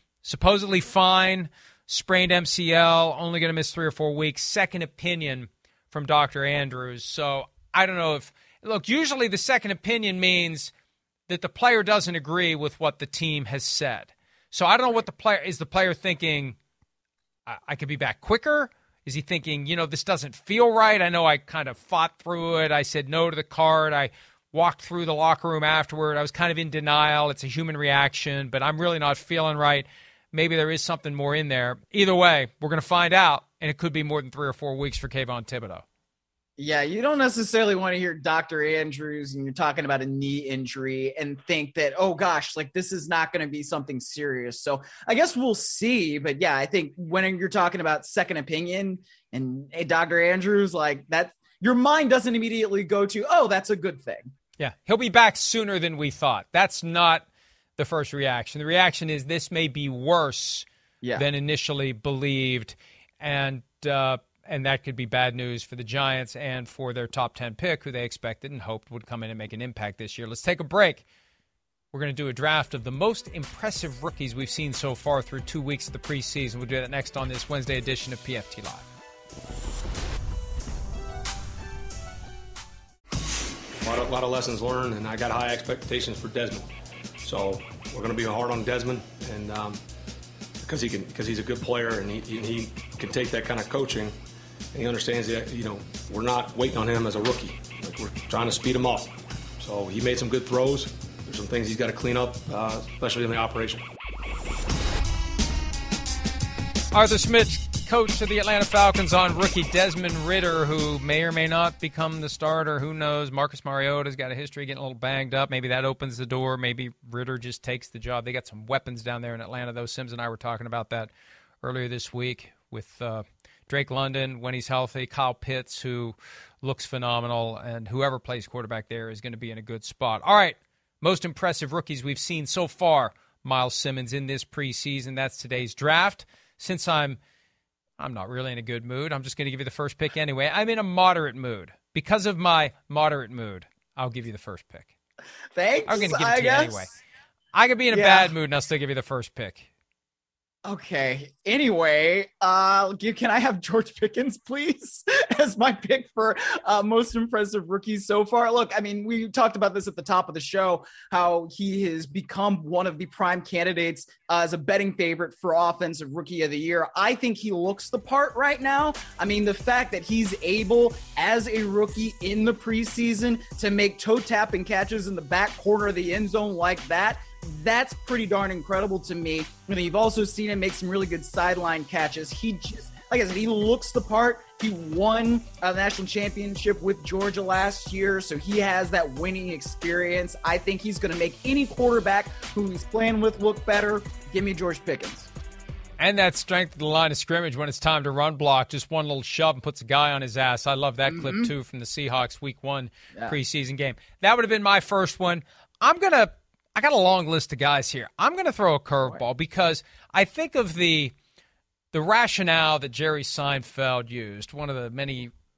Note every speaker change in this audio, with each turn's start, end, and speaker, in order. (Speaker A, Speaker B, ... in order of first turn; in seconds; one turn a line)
Speaker A: 0.2-10.7
Speaker A: 11.3-16.6
Speaker A: 17.5-35.8
Speaker B: 36.6-54.3
Speaker A: 54.6-57.2
Speaker A: 57.8-71.0
Speaker A: 71.9-78.8
Speaker C: 83.8-86.7
Speaker C: 87.2-89.8
Speaker C: 90.6-94.1
Speaker C: 94.7-103.8
Speaker A: 106.9-121.1
Speaker A: 121.6-137.2
Speaker A: 138.0-144.9
Speaker B: 145.5-146.9
Speaker A: 145.9-146.9
Speaker A: 147.5-149.7
Speaker B: 147.9-148.3
Speaker B: 150.6-195.3
Speaker A: 196.0-211.1
Speaker B: 201.1-201.5
Speaker A: 211.9-215.3